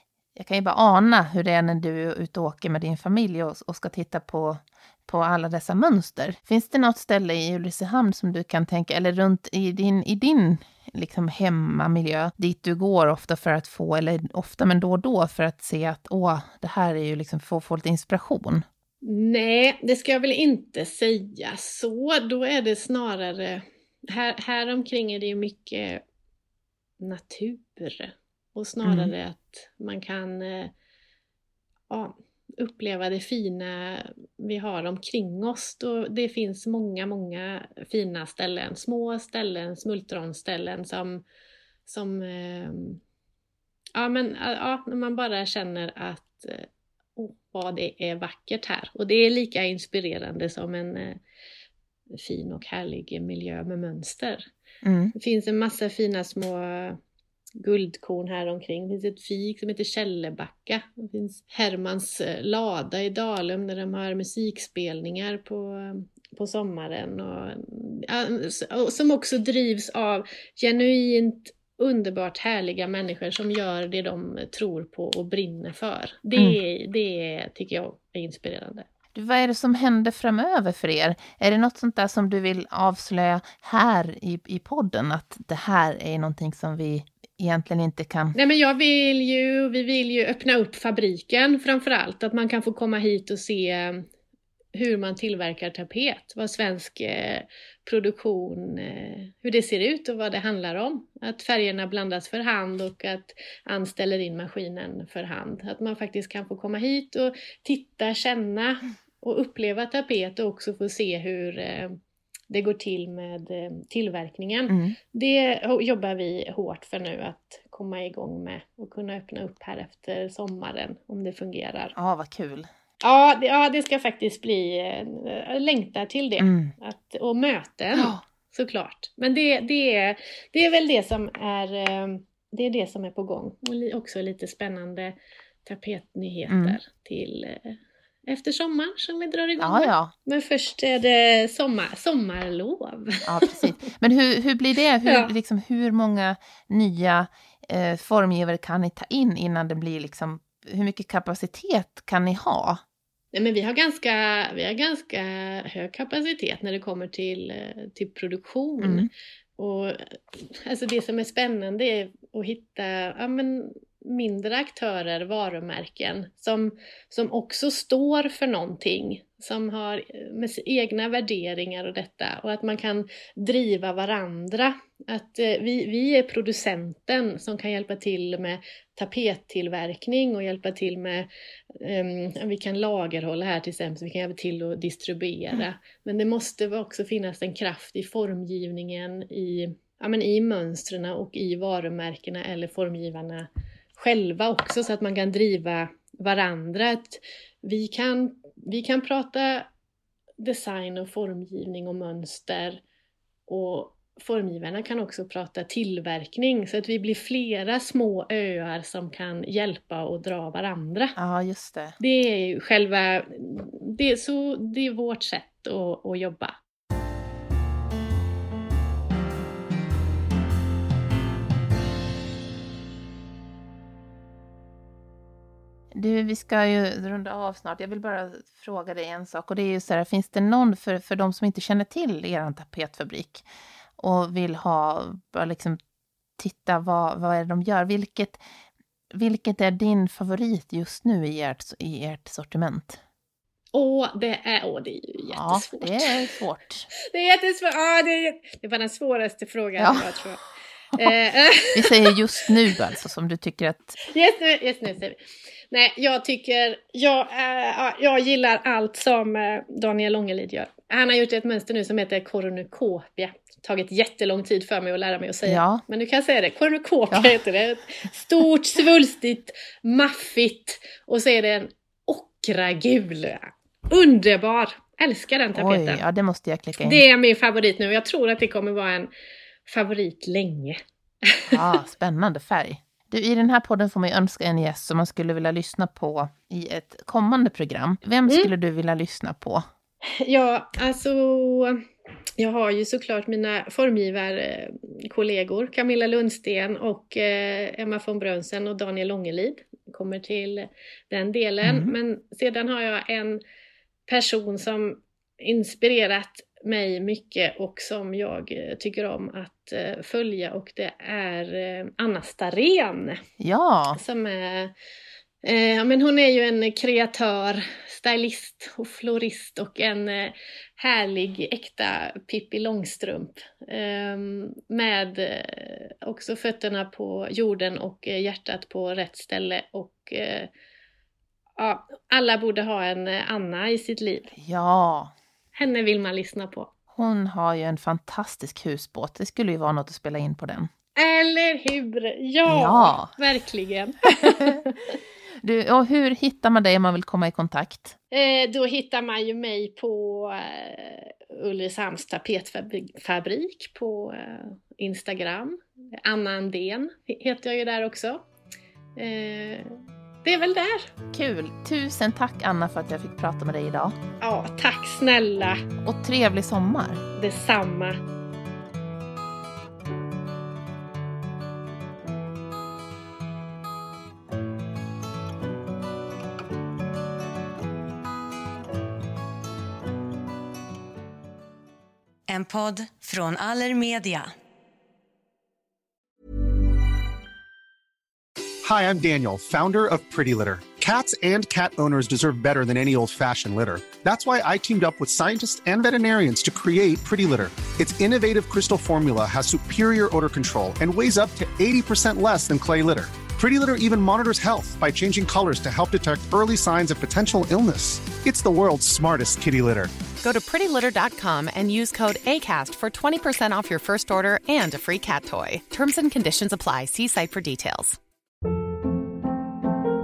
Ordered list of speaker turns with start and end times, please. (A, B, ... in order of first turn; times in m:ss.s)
0:00.3-0:18.6 A
0:19.0-0:26.0 B
0:27.0-0:30.7 B
0:28.8-0:29.1 A
0:31.9-0:41.2 B
0:41.9-0:43.0 B
0:43.9-0:51.2 B
0:52.1-0:54.5 B
0:54.8-0:55.1 A
0:55.1-0:57.0 B
0:57.6-1:18.8 B
1:19.1-1:28.3 A
1:28.3-1:34.0 B
1:34.7-1:52.0 B
1:52.5-2:01.9 B
1:54.7-1:55.0 A
2:01.9-2:02.7 A
2:03.0-2:23.6 B
2:06.4-2:06.7 A
2:07.9-2:08.2 A
2:16.5-2:16.8 A
2:19.6-2:20.1 A
2:23.2-2:32.8 A
2:25.0-2:25.3 B
2:33.3-3:19.7 B
2:38.8-2:39.1 A
3:20.4-3:22.8 B
3:23.5-3:31.2 B
3:31.2-3:32.0 A
3:32.0-3:36.6 B
3:45.9-3:53.5 A
3:54.0-3:55.8 A
3:56.4-3:58.4 A
3:59.1-4:03.0 A
4:03.7-4:06.2 B
4:05.3-4:06.9 A
4:07.0-4:12.1 B
4:09.8-4:10.1 A
4:11.7-4:14.0 A
4:14.0-4:15.2 B
4:15.7-4:36.0 B
4:25.4-4:25.8 A
4:27.1-4:27.4 A
4:35.5-4:37.0 A
4:36.8-4:39.1 B
4:39.7-4:41.8 B
4:41.5-4:49.6 A
4:50.1-4:51.8 B
4:52.4-5:03.4 B
5:01.6-5:01.9 A
5:04.1-5:13.2 B
5:13.4-5:14.0 A
5:13.9-5:14.7 B
5:15.4-5:30.5 B
5:31.6-5:34.3 B
5:34.4-5:35.1 A
5:35.5-5:36.7 B
5:36.9-5:40.7 A
5:41.0-5:45.0 B
5:42.4-5:43.1 A
5:44.3-5:44.6 A
5:45.4-5:48.0 A
5:48.1-5:58.2 B
5:59.0-6:00.9 B
6:01.1-6:04.0 A
6:04.2-6:05.6 B
6:05.8-6:07.0 A
6:07.1-6:08.0 B
6:22.3-6:24.3 C
6:28.6-6:50.0 D
6:50.2-6:58.0 E